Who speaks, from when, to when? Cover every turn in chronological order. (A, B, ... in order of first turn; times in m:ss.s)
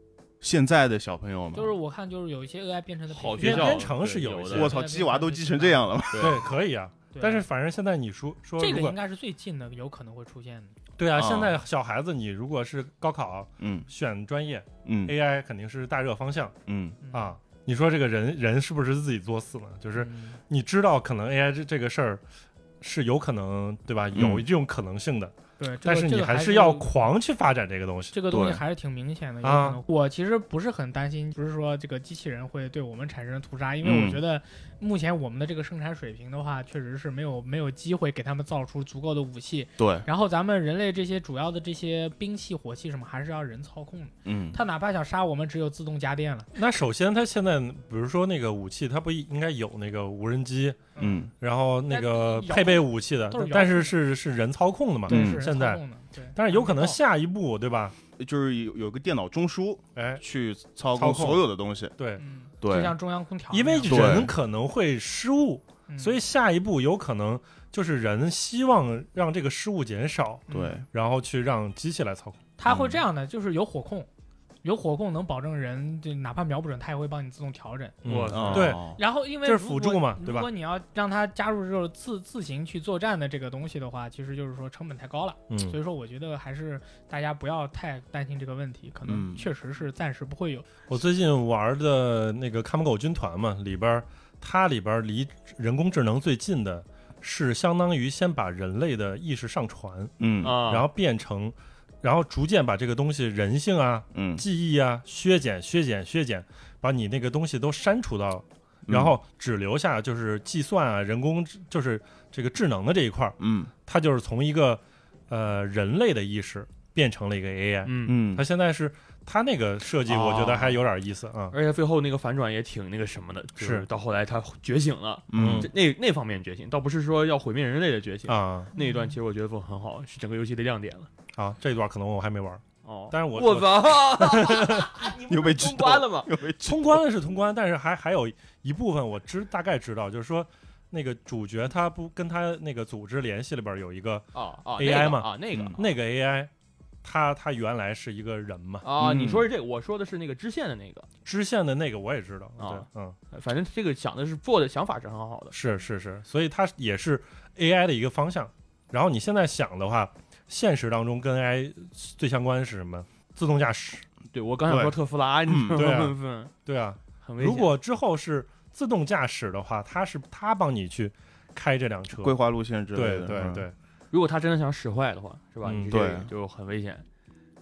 0:00.4-0:01.7 A
0:01.5-0:03.9 B
0:03.1-0:04.7 C
0:03.4-0:04.7 D
0:04.5-0:06.5 A
0:04.5-0:05.9 B
0:06.2-0:09.0 D
0:07.1-0:07.4 B
0:08.6-0:10.7 B
0:11.0-0:16.6 D
0:11.1-0:11.6 A
0:13.6-0:13.9 A
0:14.8-0:15.1 A
0:16.7-0:17.0 A
0:17.0-0:17.3 B
0:17.1-0:22.2 D
0:19.9-0:20.4 B
0:22.8-0:28.2 D
0:24.1-0:24.4 A
0:25.6-0:26.9 B
0:28.1-0:46.5 B
0:28.3-0:28.6 A
0:29.4-0:29.8 D
0:33.8-0:34.2 A
0:39.8-0:40.0 A
0:44.2-0:44.6 A
0:46.5-0:55.8 D
0:50.9-0:51.2 B
0:51.0-0:51.3 A
0:51.9-0:54.0 B
0:55.0-0:57.0 B
0:55.1-0:55.5 A
0:56.4-0:58.0 D
0:58.2-1:01.9 A
1:00.0-1:00.2 D
1:01.0-1:01.4 D
1:02.0-1:02.2 D
1:02.2-1:04.2 B
1:02.6-1:02.9 A
1:03.5-1:12.4 D
1:03.9-1:04.3 A
1:05.9-1:06.2 B
1:10.5-1:10.8 B
1:10.5-1:10.8 A
1:12.6-1:14.1 B
1:12.6-1:13.0 A
1:14.6-1:18.0 B
1:18.0-1:20.5 D
1:18.0-1:18.8 C
1:18.3-1:19.0 A
1:18.9-1:30.7 B
1:25.5-1:25.8 D
1:29.0-1:29.4 A
1:30.9-2:01.6 D
1:40.2-1:40.6 A
1:40.4-1:40.9 C
1:44.1-1:44.4 A
1:48.9-1:49.2 A
1:53.4-1:53.7 A
1:57.8-1:58.2 C
1:58.0-1:58.4 A
2:00.0-2:00.8 A
2:01.5-2:11.1 C
2:03.6-2:03.8 D
2:05.3-2:05.7 A
2:05.4-2:05.7 D
2:08.3-2:08.7 D
2:08.8-2:09.1 B
2:11.4-2:15.0 D
2:12.8-2:16.3 C
2:15.2-2:17.0 A
2:16.6-2:26.5 D
2:24.3-2:25.9 C
2:25.5-2:25.8 A
2:27.0-2:28.8 D
2:28.8-2:31.1 C
2:29.0-2:29.5 A
2:31.2-2:33.2 D
2:32.6-2:35.5 C
2:35.5-2:44.0 D
2:44.3-2:46.5 C
2:44.7-2:44.9 A
2:45.5-2:45.9 A
2:45.7-2:52.3 D
2:47.2-2:47.8 C
2:52.2-2:53.6 A
2:52.9-2:53.7 D
2:54.1-2:57.0 C
2:55.6-2:55.9 D
2:55.9-2:56.3 A